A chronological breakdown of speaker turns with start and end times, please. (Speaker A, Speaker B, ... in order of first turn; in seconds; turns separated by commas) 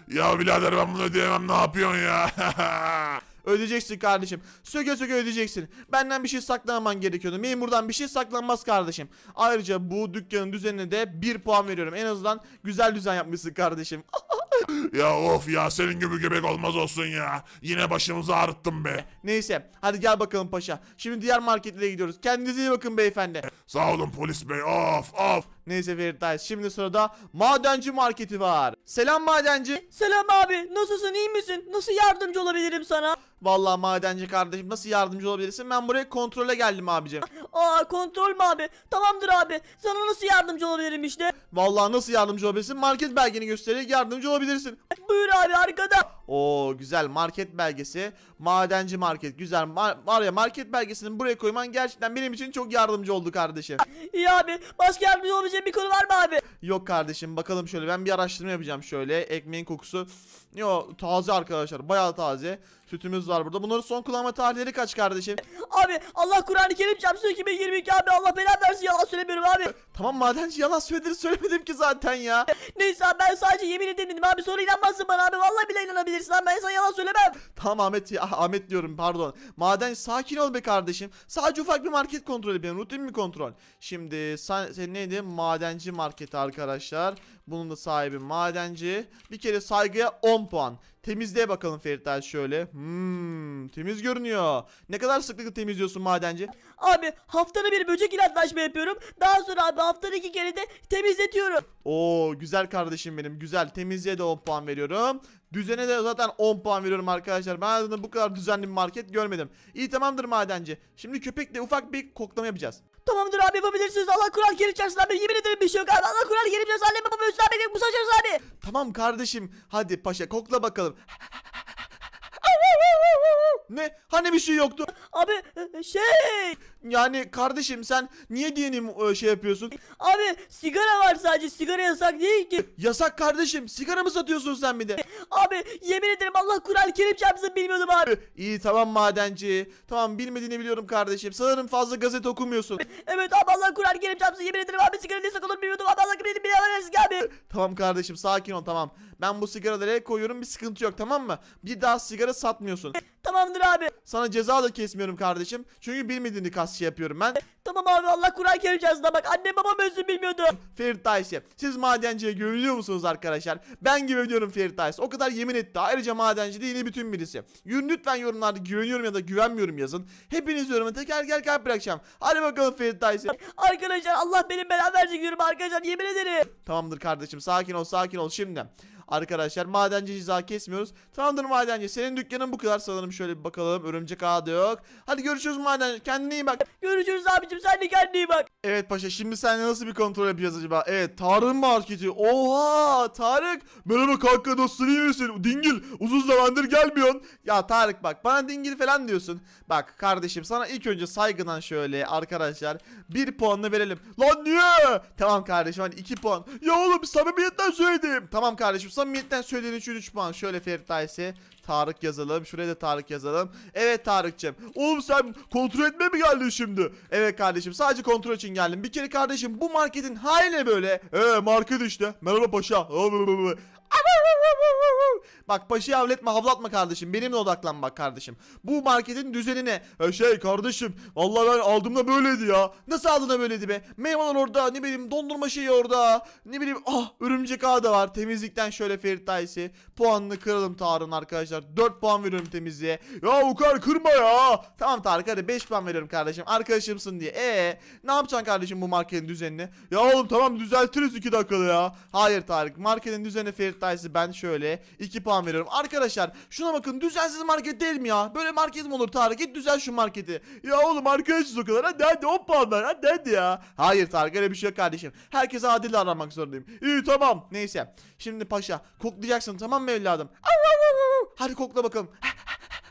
Speaker A: 0.1-3.2, Speaker B: 3.4-14.6, Speaker A: 14.7-19.0, Speaker B: 19.0-23.5, Speaker A: 23.5-25.5, Speaker B: 25.6-29.8, Speaker C: 29.9-33.2, Speaker B: 33.4-37.2, Speaker C: 37.3-41.3, Speaker B: 41.5-44.8, Speaker C: 44.9-46.1, Speaker B: 46.2-53.8, Speaker C: 54.0-56.4, Speaker B: 56.6-65.4, Speaker C: 65.6-69.7, Speaker B: 69.7-72.5, Speaker C: 72.5-77.3, Speaker B: 77.5-96.5, Speaker C: 96.8-101.7, Speaker B: 101.8-112.8, Speaker C: 113.0-118.4, Speaker B: 118.6-121.0, Speaker B: 122.4-124.9, Speaker C: 124.9-126.5, Speaker B: 126.8-129.7, Speaker C: 129.8-132.7, Speaker B: 132.7-135.0, Speaker C: 135.0-138.1, Speaker B: 138.1-142.8, Speaker C: 142.8-147.3, Speaker B: 147.3-153.0, Speaker C: 153.0-153.9, Speaker B: 154.0-157.4, Speaker C: 157.4-160.5, Speaker B: 160.5-173.3, Speaker C: 173.3-176.5, Speaker B: 176.5-186.6, Speaker C: 186.7-188.5, Speaker B: 188.6-272.5